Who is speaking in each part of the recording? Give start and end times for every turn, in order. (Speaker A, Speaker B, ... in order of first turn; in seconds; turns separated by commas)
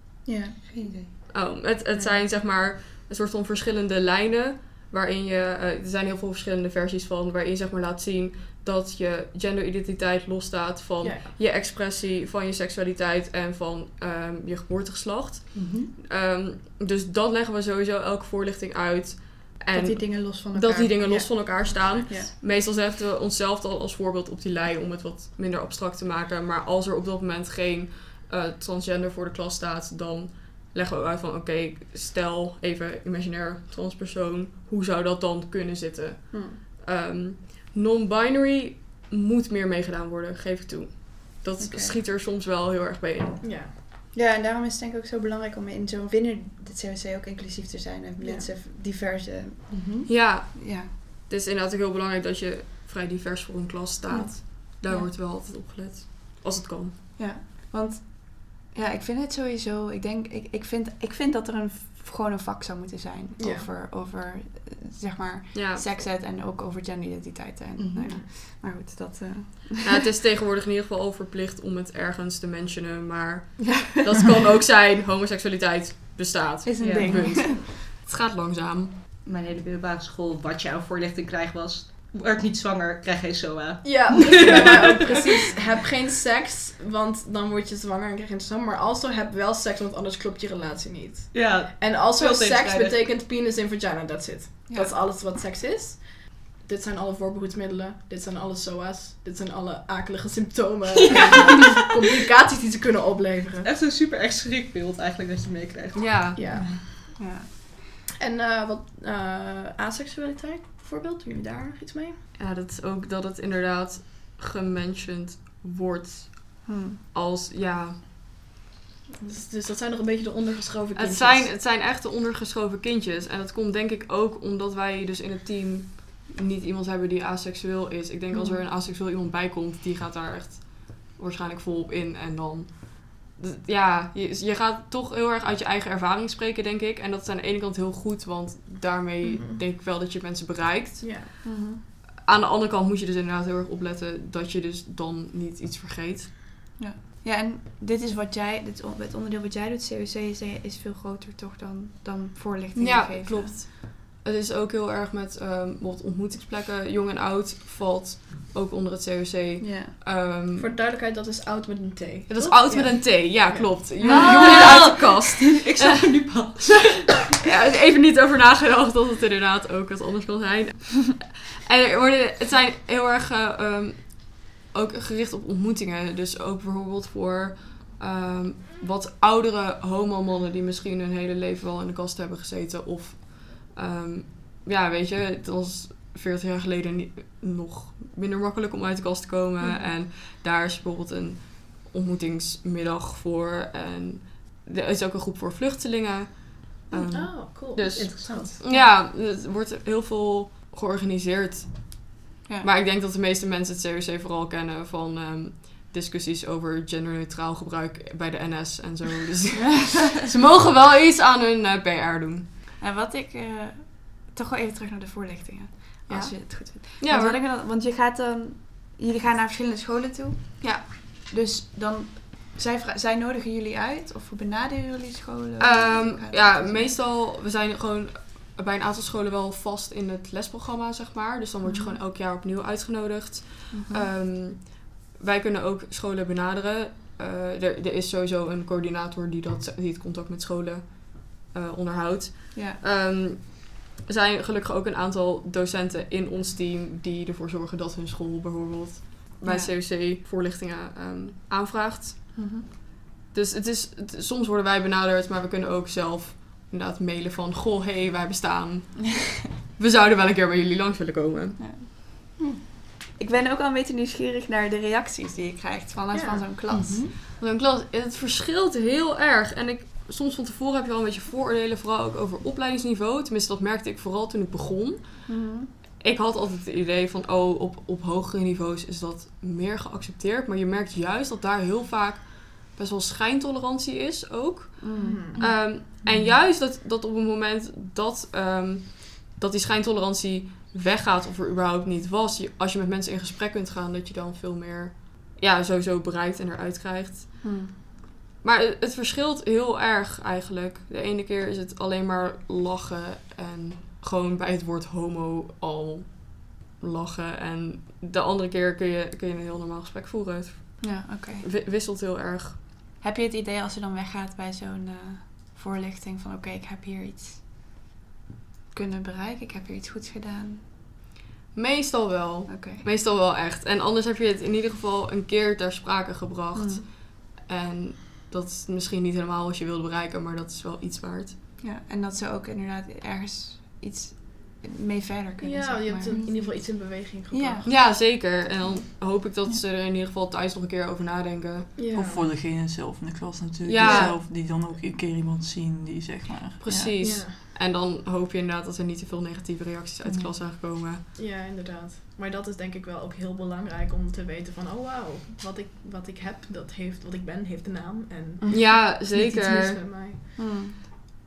Speaker A: 0.2-1.2, Speaker B: 1.3-43.4, Speaker C: 1.9-2.2, Speaker C: 11.0-11.3, Speaker D: 15.5-15.9, Speaker A: 19.7-22.3, Speaker A: 36.3-36.6, Speaker A: 41.6-42.0, Speaker C: 43.4-43.7, Speaker A: 44.1-50.9, Speaker C: 48.2-48.5, Speaker D: 49.7-50.1, Speaker B: 50.1-56.9, Speaker A: 54.1-55.1, Speaker A: 57.2-70.0, Speaker C: 63.4-63.7, Speaker B: 65.5-65.8, Speaker D: 67.8-68.1, Speaker B: 69.8-78.9, Speaker A: 76.6-77.6, Speaker C: 76.9-77.4, Speaker D: 79.2-85.6, Speaker C: 83.8-103.7, Speaker A: 84.4-85.2, Speaker D: 91.3-93.1, Speaker A: 94.7-94.9, Speaker D: 103.6-106.7, Speaker B: 105.9-106.4, Speaker C: 106.3-107.2, Speaker A: 107.2-107.7, Speaker C: 108.2-112.2, Speaker B: 112.3-118.1, Speaker A: 116.7-117.0, Speaker C: 119.2-121.5, Speaker B: 121.0-146.3, Speaker C: 139.2-139.6, Speaker C: 141.0-141.2, Speaker A: 141.4-141.8, Speaker A: 146.8-153.5, Speaker B: 152.8-160.7, Speaker A: 159.6-159.9, Speaker C: 160.5-164.1, Speaker B: 162.3-166.7, Speaker D: 164.0-167.1, Speaker B: 167.4-212.4, Speaker C: 189.6-189.9, Speaker D: 196.9-198.6, Speaker C: 197.1-198.8, Speaker A: 212.8-226.9, Speaker C: 216.1-216.3, Speaker B: 217.0-217.4, Speaker B: 220.6-220.8, Speaker B: 225.6-252.7, Speaker A: 233.7-234.1, Speaker A: 249.4-249.7, Speaker A: 252.3-252.7, Speaker B: 253.3-261.7, Speaker A: 261.6-267.1, Speaker C: 266.1-266.4, Speaker D: 266.7-267.1, Speaker B: 267.4-275.4, Speaker A: 275.3-275.7, Speaker B: 276.0-297.7, Speaker A: 284.8-285.6, Speaker C: 285.0-285.4, Speaker A: 297.4-297.7, Speaker B: 298.4-312.6, Speaker A: 310.8-311.5, Speaker A: 313.0-317.4, Speaker A: 318.7-320.6, Speaker B: 321.5-331.3, Speaker A: 322.5-322.8, Speaker A: 326.5-326.8, Speaker A: 331.6-337.6, Speaker C: 335.4-337.9, Speaker B: 337.6-341.8, Speaker C: 341.8-342.3, Speaker E: 341.9-347.0, Speaker B: 343.6-344.1, Speaker C: 343.8-344.2, Speaker B: 346.6-351.0, Speaker C: 347.0-347.4, Speaker C: 351.1-360.9, Speaker B: 358.5-359.8, Speaker A: 360.4-361.1